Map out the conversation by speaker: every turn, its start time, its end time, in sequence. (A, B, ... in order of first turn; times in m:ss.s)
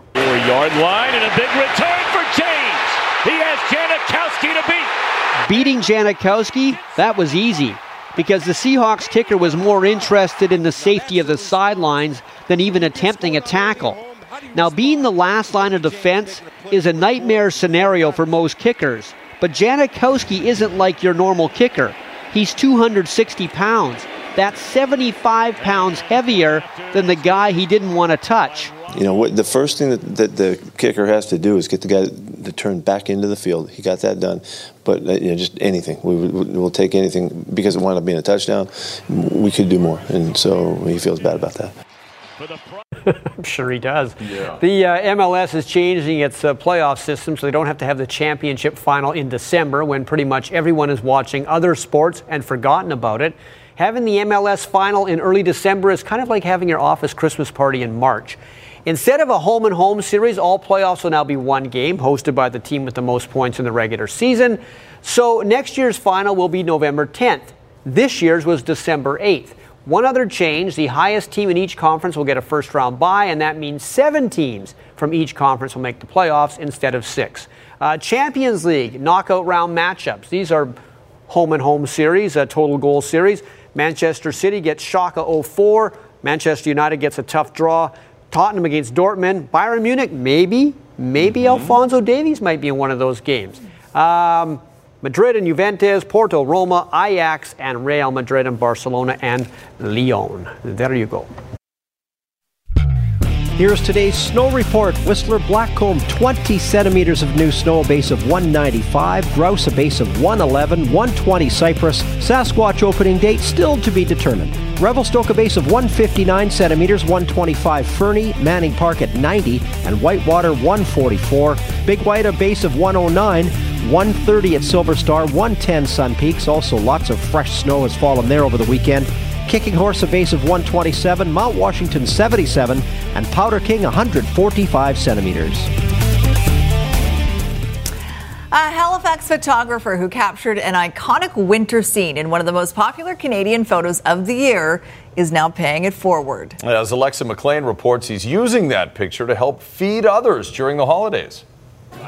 0:00.1-0:04.9 A
0:05.5-0:14.0 B
0:05.5-0:07.3 A
0:13.2-0:16.9 A
0:14.5-0:28.7 B
0:25.6-0:28.9 A
0:28.9-0:41.7 C
0:42.4-0:42.9 A
0:43.3-1:20.7 B
0:44.2-0:44.6 D
1:21.3-1:41.3 B
1:31.4-1:31.7 D
1:43.6-2:15.6 E
2:18.5-2:26.6 F
2:26.6-2:31.4 D